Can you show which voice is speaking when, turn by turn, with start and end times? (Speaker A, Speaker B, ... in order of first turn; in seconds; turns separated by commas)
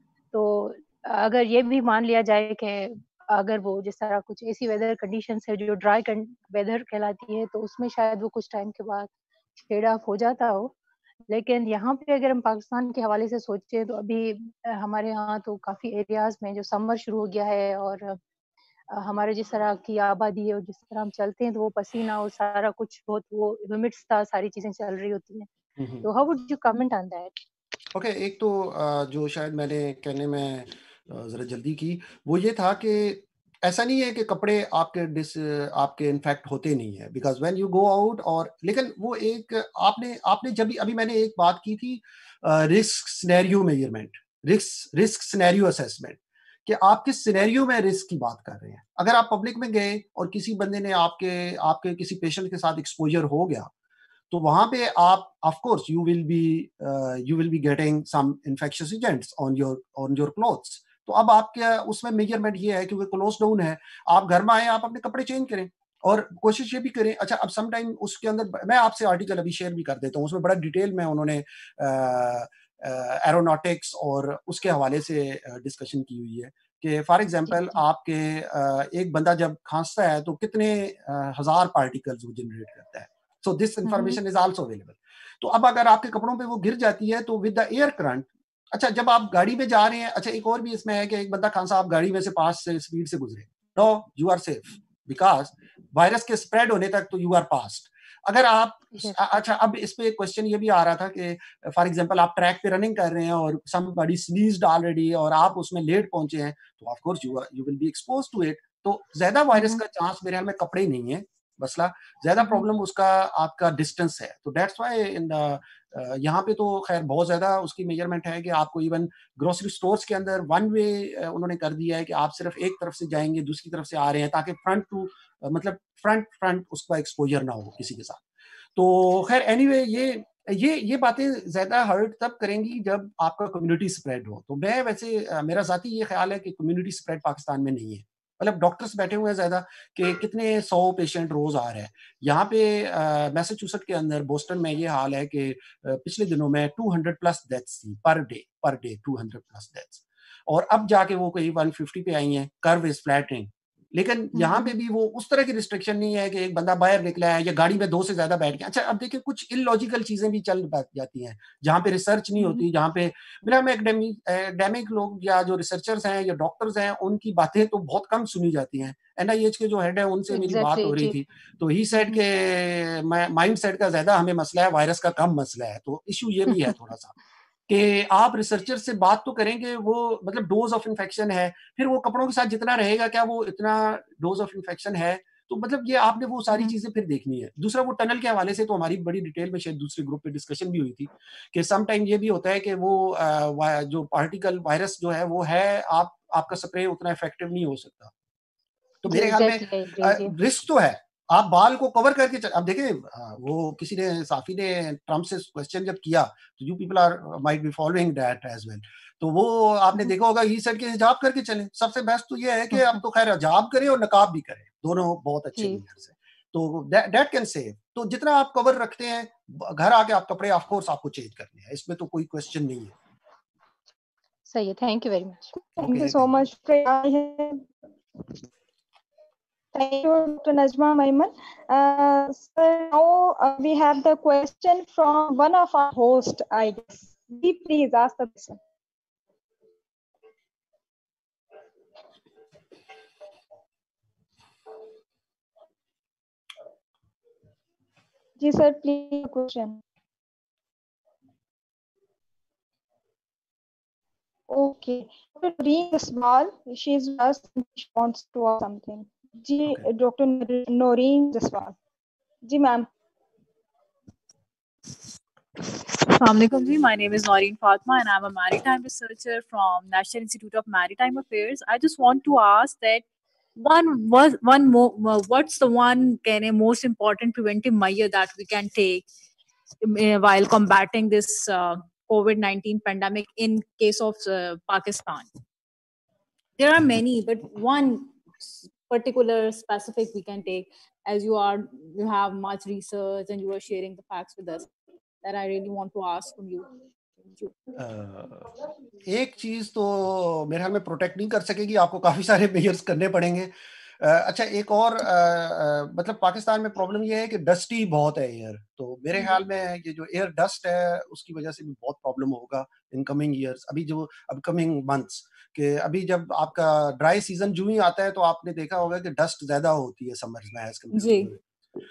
Speaker A: 0.3-10.7, Speaker A: 11.3-18.2, Speaker A: 18.9-25.5, Speaker B: 25.8-26.1, Speaker A: 26.0-27.3, Speaker B: 27.9-53.7, Speaker B: 54.3-128.2, Speaker A: 77.5-77.8, Speaker A: 83.8-84.2, Speaker A: 98.9-99.2, Speaker A: 109.5-109.8, Speaker B: 128.7-177.1, Speaker A: 154.3-154.7, Speaker A: 170.3-171.2, Speaker B: 177.7-198.1, Speaker B: 199.0-222.9, Speaker A: 199.1-200.3, Speaker A: 212.7-213.0, Speaker A: 224.5-225.5, Speaker B: 225.8-226.3, Speaker C: 225.8-227.7, Speaker C: 229.7-238.6, Speaker C: 248.4-249.8, Speaker C: 254.5-261.8, Speaker C: 262.4-262.9, Speaker D: 265.9-273.0, Speaker D: 273.6-279.1, Speaker D: 279.8-285.3, Speaker D: 286.6-294.7, Speaker D: 295.2-297.6, Speaker B: 297.8-298.5, Speaker B: 299.1-321.4, Speaker D: 320.9-321.3